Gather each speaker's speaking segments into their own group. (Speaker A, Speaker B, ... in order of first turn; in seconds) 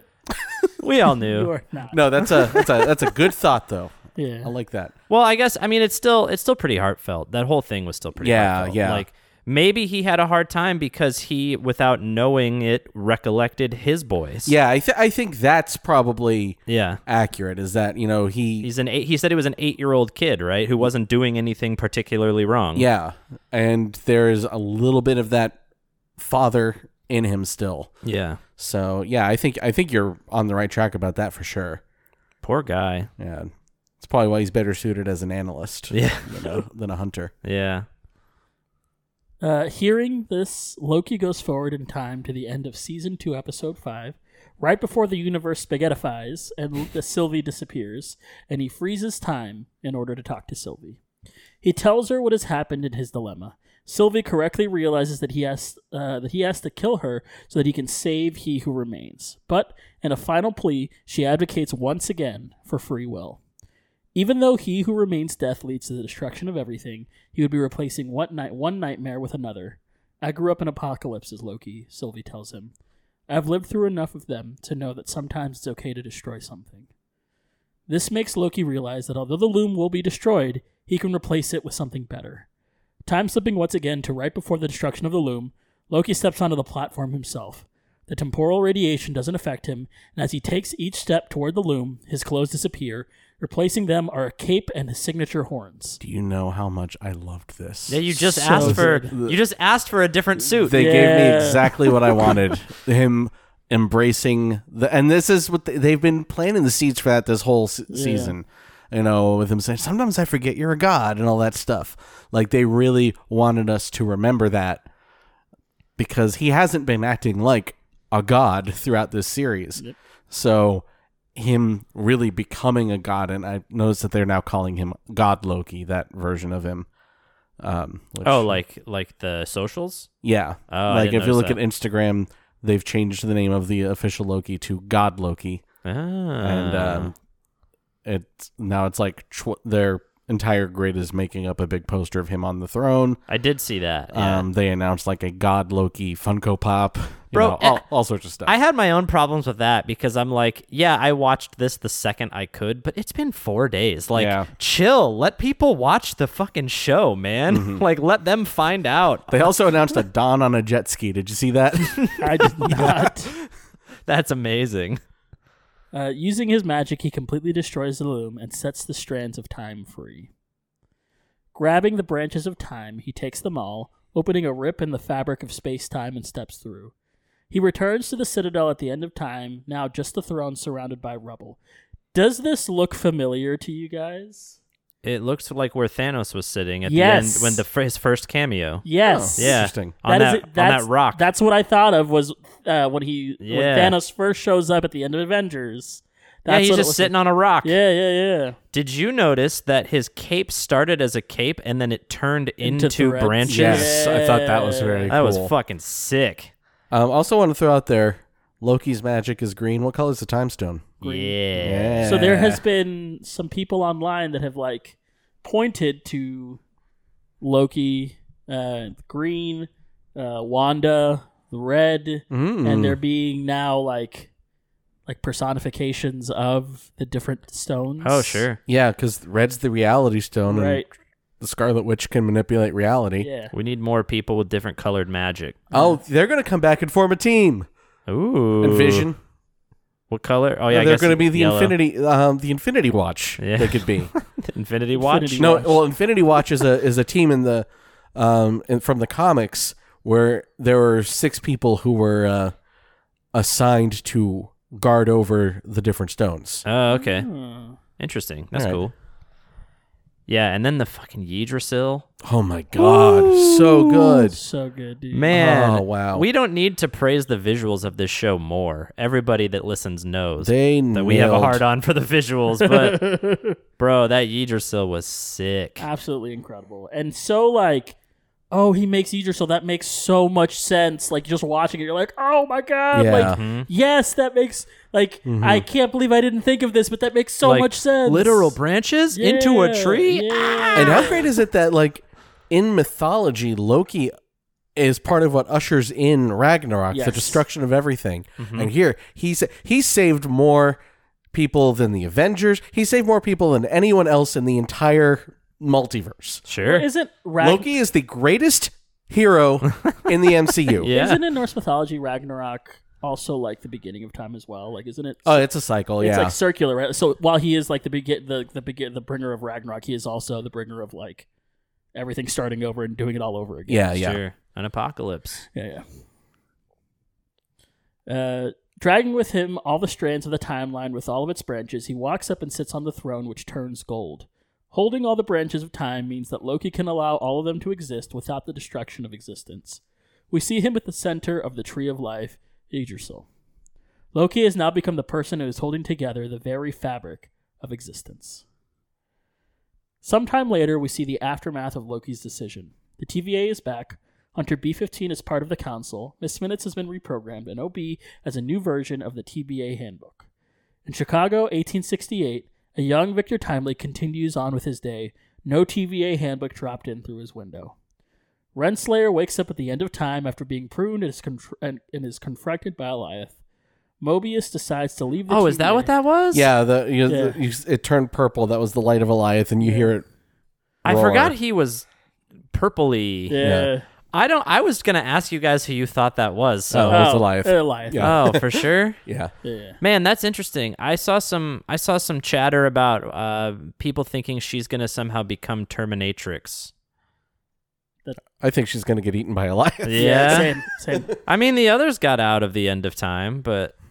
Speaker A: 0.8-1.5, 5.1-14.5, 16.7-17.0, 18.6-22.9, 28.0-28.4, 32.4-33.1, 35.9-36.6, 37.4-37.9, 97.9-101.0, 128.2-130.1, 130.7-131.6, 135.8-137.1, 143.3-144.4, 147.3-147.9, 148.4-159.5, 161.8-163.4, 164.1-165.0, 185.0-188.8, 189.4-191.2, 193.4-193.9, 196.5-197.8, 198.7-204.0, 205.1-206.5, 211.0-212.1, 228.0-228.6, 233.5-235.6, 238.1-239.1, 240.1-241.7, 243.4-245.6, 256.6-257.3, 258.0-258.9, 260.3-262.1, 262.8-264.2, 265.1-273.1, 273.8-275.9, 283.3-283.7, 287.4-291.2, 298.4-298.7, 306.5-306.9, 310.8-311.2, 323.9-325.4, 375.3-376.5, 380.8-381.9, 382.5-383.4, 384.1-387.1, 388.0-389.0, 389.8-396.7, 399.8-400.5, 401.2-403.7
Speaker B: 1.2-2.6, 4.2-4.5, 39.4-51.0, 51.6-63.4, 64.1-72.7, 73.3-76.9, 77.9-82.5, 83.0-96.0, 98.5-99.1, 100.7-102.4, 107.9-108.3, 162.2-163.3, 165.9-170.3, 171.5-176.9, 177.5-181.6, 182.1-184.6, 186.8-187.6, 188.8-198.6, 202.6-205.1, 211.0-211.4, 212.0-216.6, 217.4-224.3, 225.1-228.4, 230.5-230.9, 233.2-233.5, 235.7-236.0, 244.9-245.8, 256.9-257.8, 264.2-265.4, 272.6-273.6, 275.8-277.9, 278.5-288.6, 289.1-291.1, 296.9-297.4, 306.6-307.7, 310.9-315.4, 316.0-321.3, 321.9-323.9, 325.5-325.8, 328.1-343.3, 344.1-348.4, 350.0-360.2, 360.9-367.7, 368.5-373.4, 374.0-375.9, 377.1-377.4, 379.6-379.9, 383.3-383.8, 386.9-388.1, 389.4-389.8, 399.9-401.1
Speaker C: 1.9-4.9, 8.2-9.1, 14.4-18.7, 22.7-25.6, 26.2-27.9, 28.6-31.8, 33.2-37.3, 96.0-99.4, 100.4-114.8, 116.0-126.9, 127.6-128.6, 130.2-135.6, 136.4-137.1, 138.0-143.2, 144.1-148.5, 154.1-154.5, 157.5-157.8, 159.3-162.2, 189.0-189.9, 203.4-205.5, 206.9-210.9, 211.6-212.6, 222.3-223.0, 228.7-230.8, 231.4-233.3, 235.7-237.7, 238.6-239.2, 240.7-244.1, 245.4-252.5, 253.3-256.6, 258.5-258.8, 262.2-264.4, 265.3-266.2, 270.4-271.6, 282.9-283.4, 285.2-285.6, 290.7-294.1, 294.8-300.8, 301.3-306.4, 307.4-310.9, 315.2-316.4, 323.7-324.2, 376.3-380.0, 380.8-381.3, 383.4-383.7, 386.7-389.3, 398.4-401.1